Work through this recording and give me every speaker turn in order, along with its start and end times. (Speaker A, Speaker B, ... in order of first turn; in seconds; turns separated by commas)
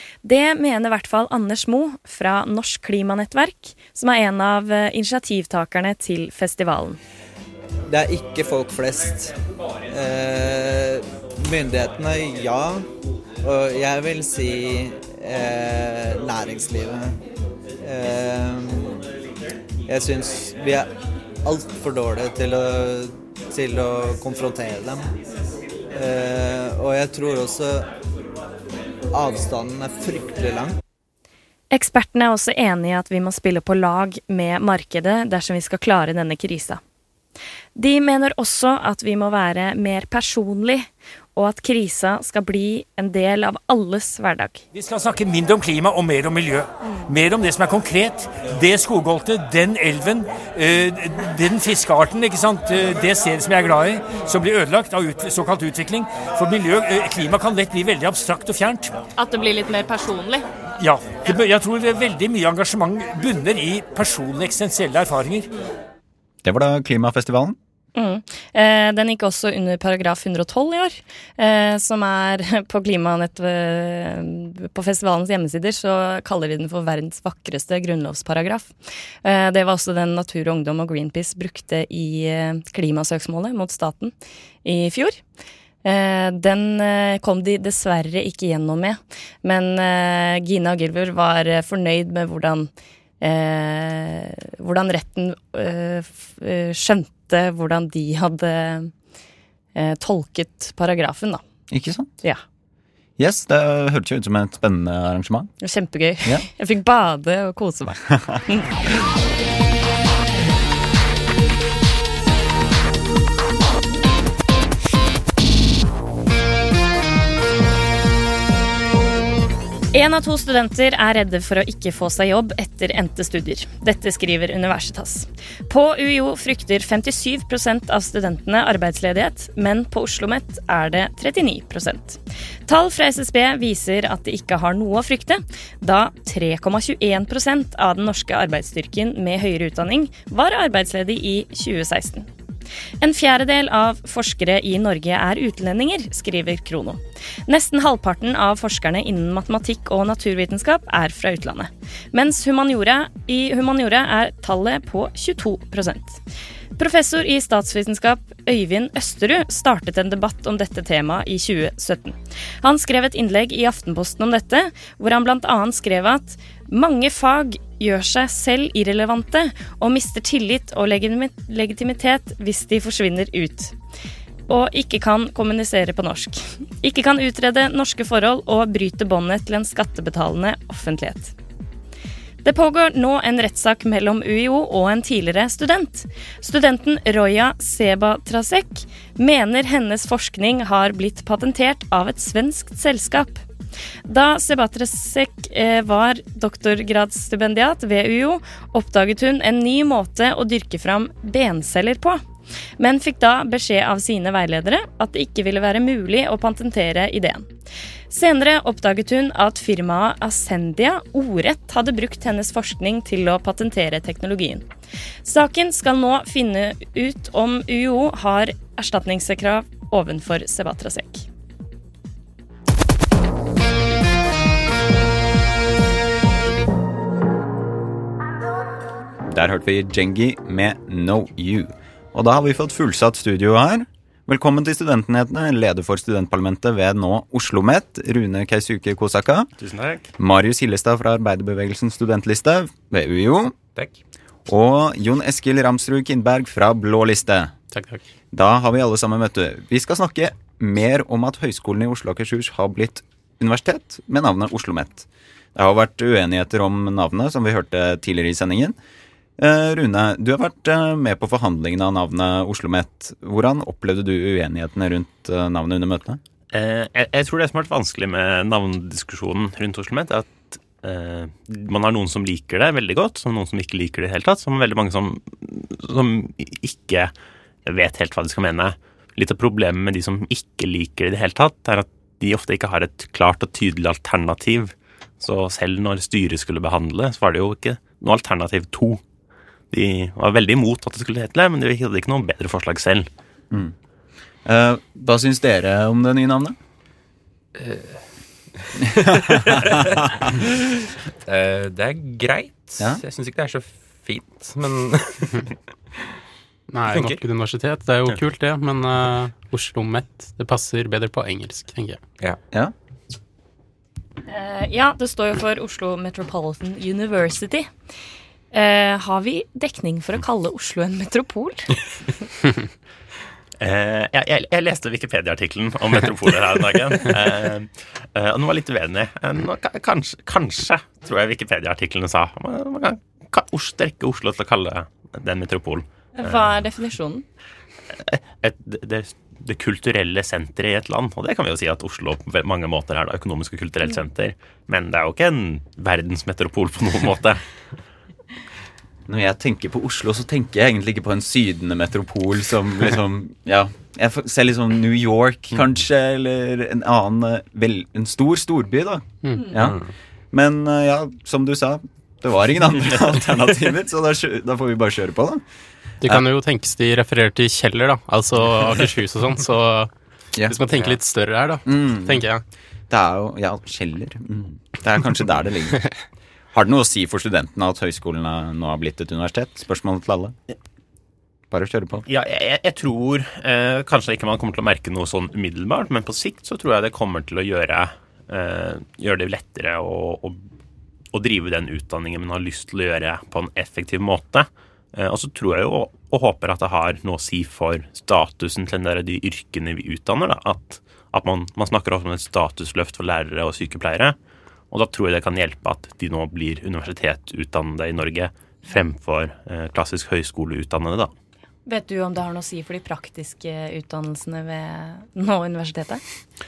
Speaker A: 0.2-7.0, Speaker B: 7.9-9.3, Speaker B: 9.9-12.8, Speaker B: 13.4-17.2, Speaker B: 17.8-19.0, Speaker B: 19.9-20.9, Speaker B: 21.4-25.1, Speaker B: 25.9-27.9, Speaker B: 29.1-30.7, Speaker A: 31.7-36.8, Speaker A: 37.8-44.6, Speaker C: 44.7-59.0, Speaker A: 59.2-60.4, Speaker C: 60.8-65.5, Speaker D: 66.4-67.5, Speaker A: 67.9-85.2, Speaker A: 85.8-92.7, Speaker A: 93.2-98.9, Speaker A: 99.7-101.4, Speaker D: 101.7-102.1, Speaker D: 103.2-105.5, Speaker A: 105.6-108.7, Speaker A: 119.9-142.3, Speaker A: 143.0-156.2, Speaker A: 156.8-173.7, Speaker A: 174.5-181.3, Speaker A: 182.4-193.4, Speaker A: 194.1-202.2, Speaker A: 202.8-207.5, Speaker A: 208.1-214.7, Speaker A: 215.2-221.2, Speaker D: 229.2-239.5, Speaker E: 239.6-240.1, Speaker D: 240.2-243.6, Speaker D: 244.5-247.5, Speaker F: 247.7-248.0, Speaker D: 248.3-258.8, Speaker D: 259.4-266.2, Speaker E: 266.5-277.1, Speaker E: 277.6-289.0, Speaker E: 289.7-293.1, Speaker D: 294.4-296.6, Speaker G: 297.6-298.0, Speaker G: 299.5-299.9, Speaker G: 301.2-305.4, Speaker F: 306.7-312.0, Speaker G: 306.9-307.2, Speaker A: 314.3-317.7, Speaker A: 318.5-321.8, Speaker E: 323.6-336.4, Speaker A: 336.2-337.2, Speaker E: 338.0-347.4, Speaker D: 349.1-359.8, Speaker F: 359.2-359.5, Speaker G: 359.6-359.9, Speaker D: 360.3-365.4, Speaker F: 366.0-369.9, Speaker F: 370.4-372.4, Speaker G: 370.7-371.0, Speaker D: 371.6-372.3, Speaker D: 372.9-375.9, Speaker D: 376.5-380.3, Speaker D: 381.5-382.0, Speaker E: 382.1-390.5, Speaker E: 391.1-404.1, Speaker E: 404.7-411.1, Speaker A: 411.6-416.0